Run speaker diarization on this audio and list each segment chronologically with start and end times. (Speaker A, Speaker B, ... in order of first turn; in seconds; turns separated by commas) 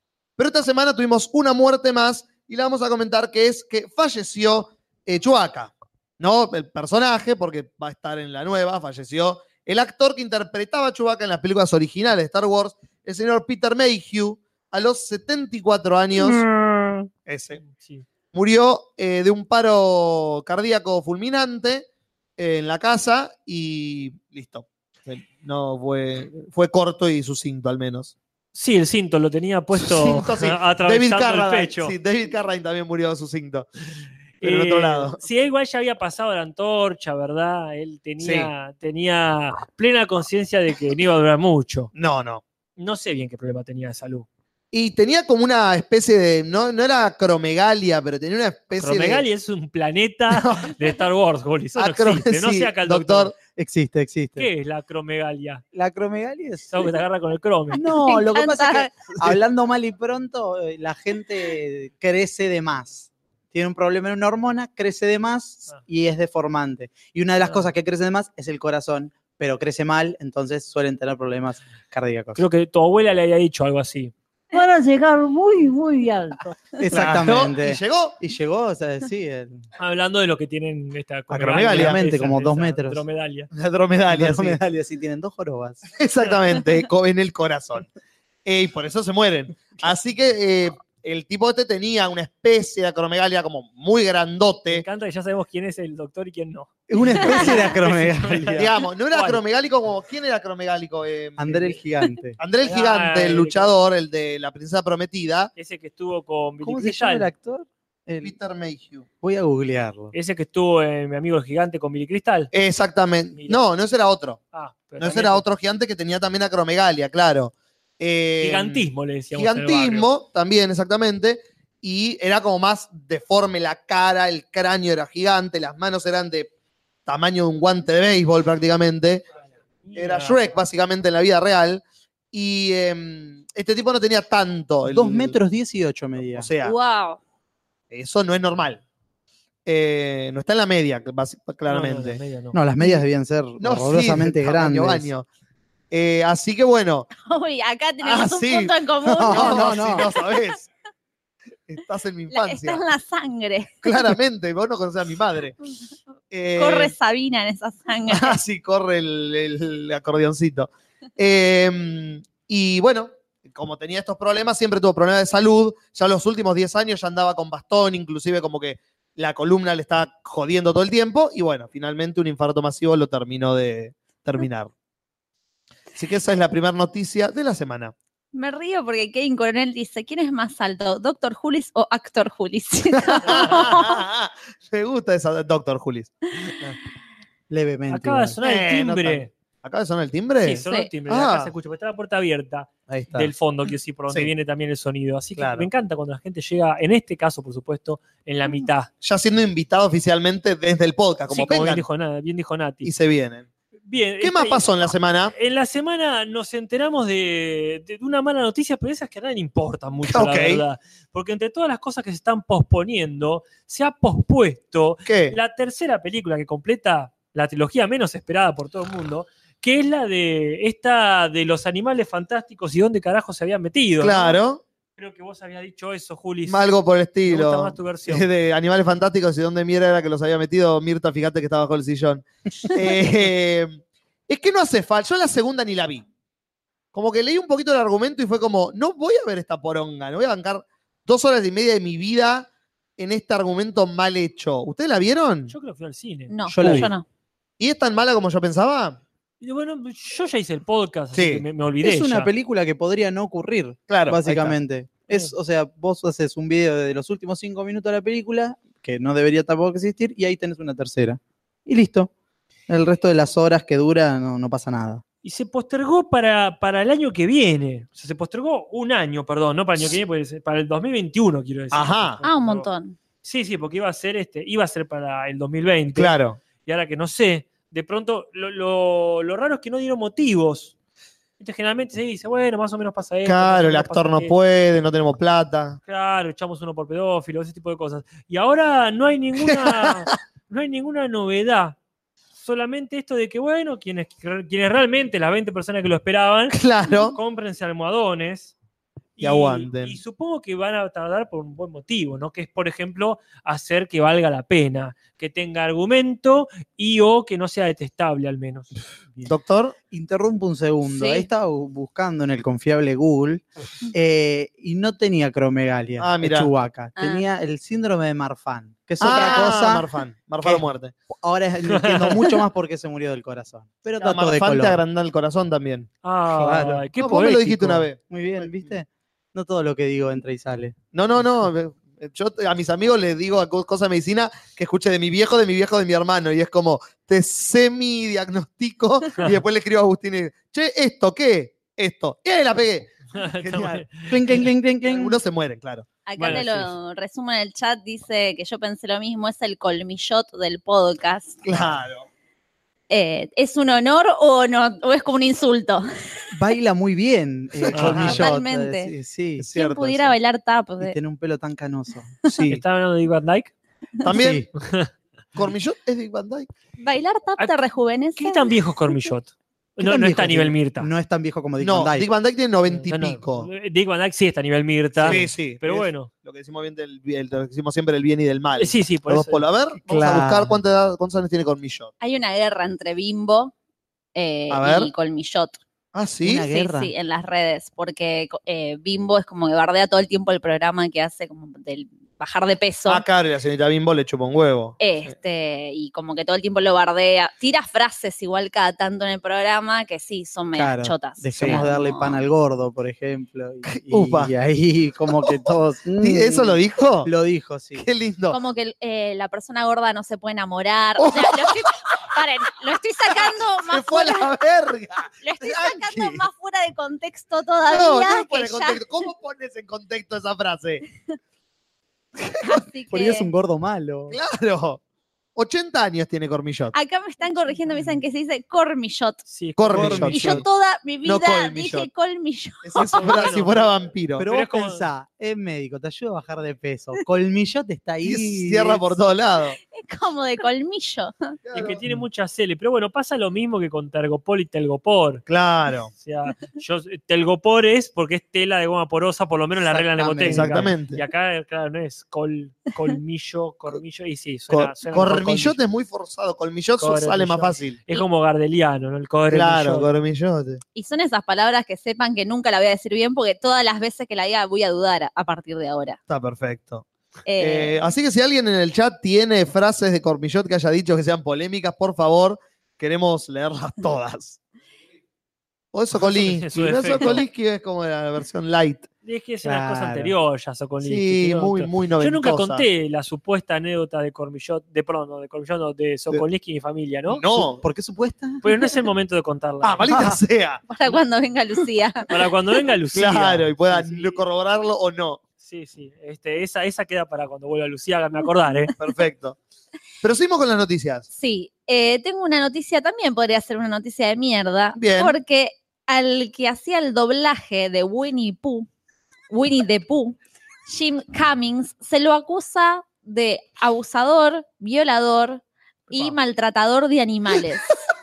Speaker A: 0.4-16.4, Speaker B: 16.1-17.1, Speaker A: 17.3-17.6, Speaker B: 17.6-18.1, Speaker A: 18.3-28.1, Speaker B: 28.6-31.9, Speaker A: 29.8-33.7, Speaker B: 34.4-41.9, Speaker A: 34.4-35.2, Speaker A: 38.2-38.5, Speaker A: 41.9-42.4, Speaker B: 42.8-44.3, Speaker A: 44.7-49.2, Speaker B: 48.8-53.3, Speaker A: 50.3-50.7, Speaker A: 51.8-53.3, Speaker C: 53.6-54.5, Speaker B: 54.4-55.6, Speaker C: 55.7-56.9, Speaker B: 56.7-57.8, Speaker C: 57.7-72.5, Speaker D: 57.7-58.9, Speaker B: 67.4-67.7, Speaker B: 72.4-74.1, Speaker E: 74.5-76.7, Speaker C: 76.8-79.6, Speaker A: 76.9-78.2, Speaker B: 79.8-83.5, Speaker A: 81.3-82.0, Speaker C: 81.6-83.0, Speaker A: 83.5-84.6, Speaker C: 84.1-85.8, Speaker A: 85.9-87.9, Speaker A: 88.5-94.8, Speaker B: 94.7-99.4, Speaker C: 96.9-98.7, Speaker A: 98.5-101.8, Speaker C: 101.4-102.4, Speaker A: 102.4-105.5, Speaker B: 102.6-103.8, Speaker B: 105.6-107.3, Speaker C: 106.6-108.3, Speaker A: 108.2-109.1, Speaker C: 109.2-110.1, Speaker B: 110.1-112.5, Speaker A: 112.5-114.4, Speaker B: 113.3-113.6, Speaker B: 114.5-115.4, Speaker A: 115.0-126.5, Speaker B: 118.4-120.1, Speaker A: 127.1-129.2, Speaker B: 129.8-130.6, Speaker A: 129.9-135.4, Speaker C: 134.8-136.5, Speaker A: 136.3-136.8, Speaker D: 136.6-137.2, Speaker A: 137.9-138.8, Speaker A: 139.7-142.2, Speaker B: 141.7-142.6, Speaker C: 142.5-145.1, Speaker A: 143.6-145.3, Speaker A: 145.9-147.1, Speaker D: 147.2-150.1, Speaker A: 148.0-148.7, Speaker C: 149.1-150.1, Speaker A: 149.3-150.7, Speaker A: 151.7-152.8, Speaker D: 152.3-154.1, Speaker A: 153.8-155.6, Speaker A: 156.3-156.9, Speaker D: 156.6-158.4, Speaker A: 158.1-174.7, Speaker A: 176.0-177.9, Speaker D: 178.3-184.0, Speaker A: 183.0-186.8, Speaker C: 187.5-188.4, Speaker B: 187.9-189.3, Speaker A: 188.4-191.5, Speaker B: 190.4-198.9, Speaker C: 192.9-193.3, Speaker A: 195.4-195.7, Speaker A: 199.0-201.8, Speaker B: 201.3-202.9, Speaker A: 202.8-203.5, Speaker B: 203.9-224.4, Speaker A: 204.2-205.3, Speaker A: 210.1-210.6, Speaker A: 215.1-215.4, Speaker A: 224.0-224.6, Speaker B: 225.0-226.7, Speaker A: 226.5-236.1, Speaker B: 227.3-228.3, Speaker A: 236.9-245.6, Speaker B: 245.5-246.8, Speaker D: 246.3-247.1, Speaker C: 246.5-246.9, Speaker A: 247.6-249.0, Speaker B: 249.4-252.3, Speaker A: 251.1-251.4, Speaker C: 251.8-262.1, Speaker A: 253.9-254.6, Speaker C: 262.7-265.0, Speaker B: 265.2-272.7, Speaker A: 271.7-272.2, Speaker D: 272.2-273.0, Speaker B: 273.2-280.7, Speaker A: 275.9-276.4, Speaker B: 281.4-284.3, Speaker A: 283.2-285.8, Speaker B: 285.9-291.8, Speaker A: 289.4-290.1, Speaker B: 292.3-296.6, Speaker A: 296.5-297.2, Speaker B: 297.1-298.5, Speaker B: 299.2-308.7, Speaker A: 299.2-300.0, Speaker A: 309.3-309.8, Speaker C: 309.9-319.9, Speaker D: 310.9-311.3, Speaker A: 316.0-316.5, Speaker D: 317.0-317.3, Speaker A: 319.0-320.9, Speaker C: 320.4-324.8, Speaker B: 321.7-322.2, Speaker A: 324.0-325.9, Speaker B: 326.0-327.9, Speaker C: 326.3-326.9, Speaker A: 327.0-328.7, Speaker C: 328.1-330.8, Speaker A: 330.9-343.9, Speaker B: 343.1-344.2, Speaker C: 344.1-345.2, Speaker A: 344.9-345.9, Speaker D: 346.1-351.4, Speaker B: 346.2-346.7, Speaker A: 351.4-352.1, Speaker D: 352.9-355.9, Speaker C: 356.3-359.5, Speaker A: 357.7-358.2, Speaker B: 357.7-358.2, Speaker D: 358.0-358.9, Speaker A: 359.4-360.1, Speaker D: 359.5-361.0, Speaker C: 360.8-362.1, Speaker A: 362.3-362.6, Speaker B: 362.5-363.5, Speaker A: 364.0-364.5, Speaker C: 364.1-364.5, Speaker B: 364.6-364.9, Speaker A: 365.4-366.5, Speaker D: 366.8-368.5, Speaker B: 368.2-370.9, Speaker C: 369.8-372.1, Speaker A: 371.6-373.5, Speaker B: 372.7-376.1, Speaker A: 375.0-381.9, Speaker B: 378.6-379.4, Speaker C: 379.9-380.6, Speaker D: 382.0-383.5, Speaker D: 384.1-385.6, Speaker A: 384.5-384.9, Speaker A: 385.9-386.5, Speaker C: 386.2-386.9, Speaker D: 386.5-393.0, Speaker A: 392.9-394.8, Speaker D: 394.8-402.2, Speaker C: 400.6-407.9, Speaker A: 401.4-401.6, Speaker A: 403.7-404.3, Speaker A: 406.0-407.1, Speaker A: 407.8-408.4, Speaker D: 408.3-414.3, Speaker A: 411.0-411.5, Speaker A: 413.2-416.2, Speaker D: 415.2-418.8, Speaker A: 417.7-420.9, Speaker A: 422.2-422.6, Speaker D: 422.4-423.3, Speaker C: 422.9-424.2, Speaker A: 424.1-424.8, Speaker A: 425.4-426.7, Speaker D: 426.7-429.2, Speaker B: 429.3-430.3, Speaker A: 429.6-430.5, Speaker C: 429.7-430.4, Speaker D: 430.1-433.3, Speaker A: 431.1-431.9, Speaker A: 432.6-434.3, Speaker B: 432.8-433.7, Speaker C: 434.2-439.0, Speaker B: 434.2-434.9, Speaker A: 438.0-439.6, Speaker D: 439.7-441.4, Speaker A: 441.5-441.8, Speaker B: 441.5-445.2, Speaker A: 445.3-445.9, Speaker B: 446.0-455.6, Speaker C: 449.6-450.8, Speaker A: 450.3-451.0, Speaker A: 454.5-457.8, Speaker B: 456.8-459.9, Speaker A: 459.3-460.6, Speaker D: 460.8-466.0, Speaker A: 466.1-466.9, Speaker D: 467.3-467.8, Speaker A: 467.4-474.4, Speaker A: 475.7-478.9, Speaker B: 475.9-477.3, Speaker B: 479.1-487.4, Speaker C: 479.4-480.1, Speaker A: 480.8-482.6, Speaker A: 487.1-487.6, Speaker C: 487.6-488.5, Speaker B: 488.4-489.9, Speaker A: 489.6-490.6, Speaker C: 489.9-490.2, Speaker D: 490.7-492.1, Speaker B: 492.1-494.1, Speaker A: 492.9-495.2, Speaker B: 495.4-498.7, Speaker A: 498.8-499.4, Speaker A: 500.0-501.1, Speaker D: 501.1-508.7, Speaker A: 504.8-505.2, Speaker D: 509.3-517.7